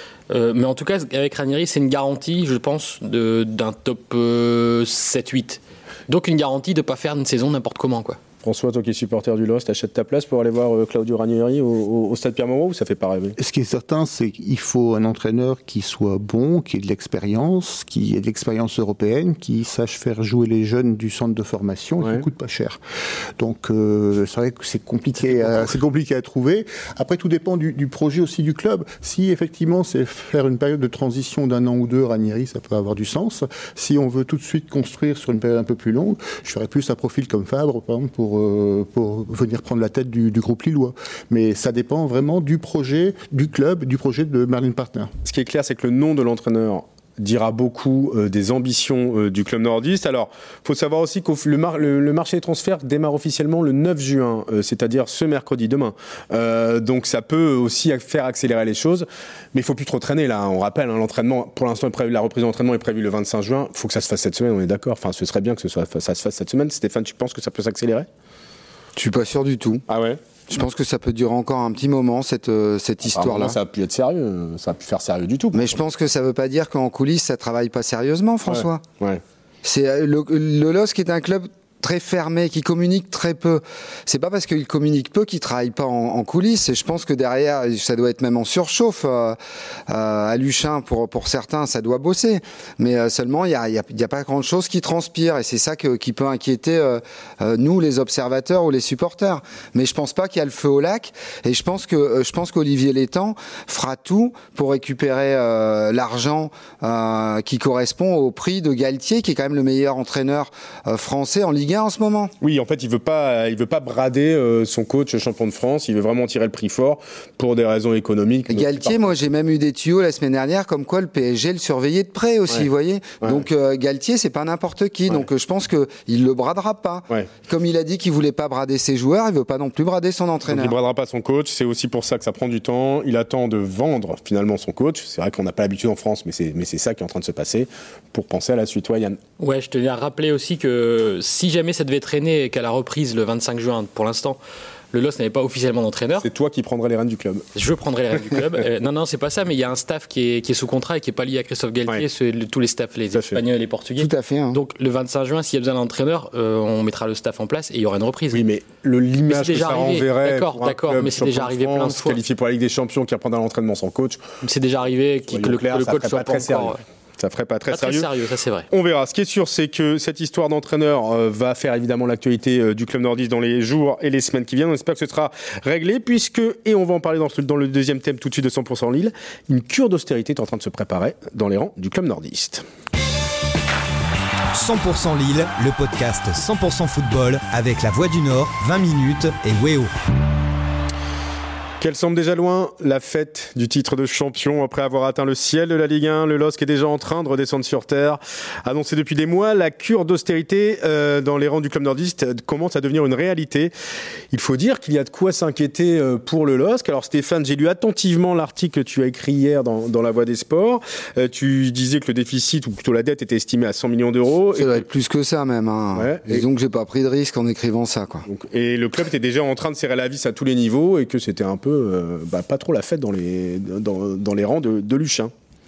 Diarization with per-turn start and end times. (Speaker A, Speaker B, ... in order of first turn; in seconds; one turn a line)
Speaker A: 0.3-8.2
Speaker B: 8.4-13.4
Speaker C: 13.4-22.8
Speaker C: 23.4-45.1
Speaker B: 45.2-68.1
Speaker D: 69.0-69.8
Speaker B: 69.9-70.2
Speaker D: 70.5-73.6
Speaker B: 73.1-75.8
Speaker D: 75.5-78.8
Speaker B: 78.5-79.2
Speaker D: 79.6-89.4
Speaker D: 89.9-112.3
Speaker B: 112.4-119.1
Speaker D: 118.5-130.8
Speaker B: 130.5-139.2
Speaker A: 139.4-144.4
Speaker A: 144.9-146.3
Speaker B: 146.2-147.4
Speaker A: 147.6-158.4
Speaker B: 153.1-153.4
Speaker D: 154.0-154.6
Speaker B: 158.3-164.2
Speaker A: 159.3-162.2
Speaker A: 164.4-166.8
Speaker B: 165.3-168.1
Speaker A: 167.7-168.7
Speaker B: 168.7-182.6
Speaker E: 184.5-189.9
Speaker B: 191.8-203.7
Speaker B: 204.3-214.8
Speaker D: 214.6-218.3
Speaker B: 215.9-216.5
Speaker B: 218.3-225.3